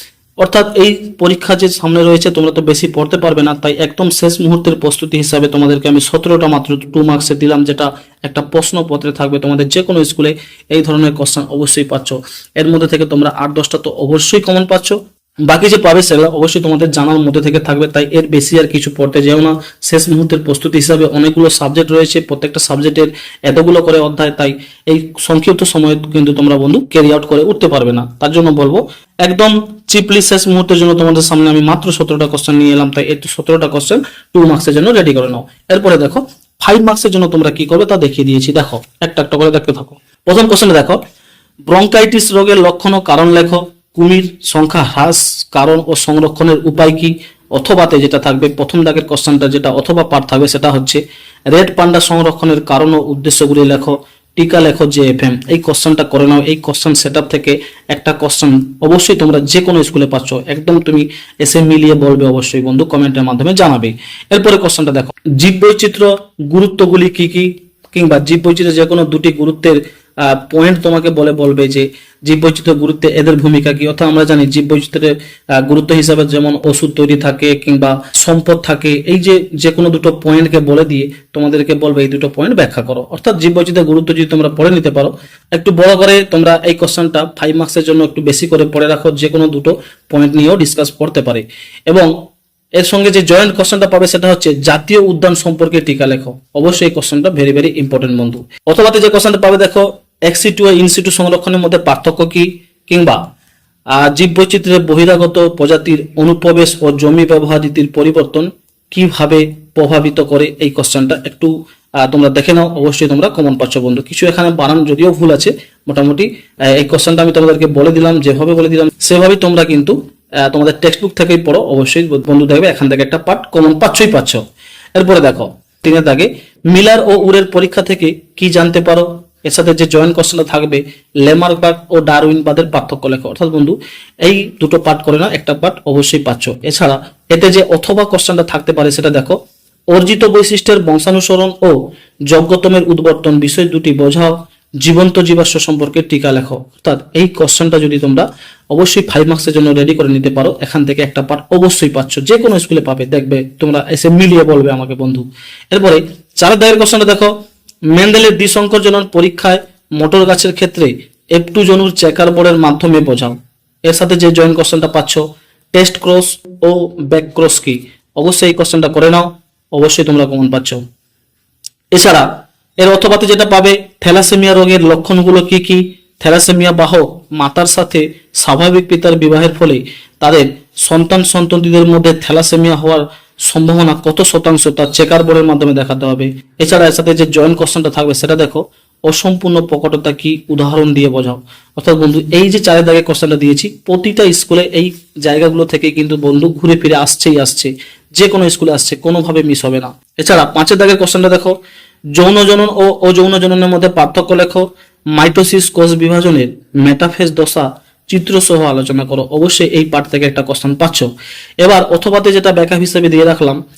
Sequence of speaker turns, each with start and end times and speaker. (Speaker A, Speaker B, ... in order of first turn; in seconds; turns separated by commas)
Speaker A: 0.4-41.0, Speaker A: 41.7-92.1, Speaker A: 92.8-103.2, Speaker A: 104.0-124.4, Speaker A: 125.0-139.4, Speaker A: 139.9-141.8, Speaker A: 142.3-157.3, Speaker A: 157.9-170.8, Speaker A: 171.9-172.3, Speaker A: 172.8-201.6, Speaker A: 202.2-211.1, Speaker A: 211.6-213.6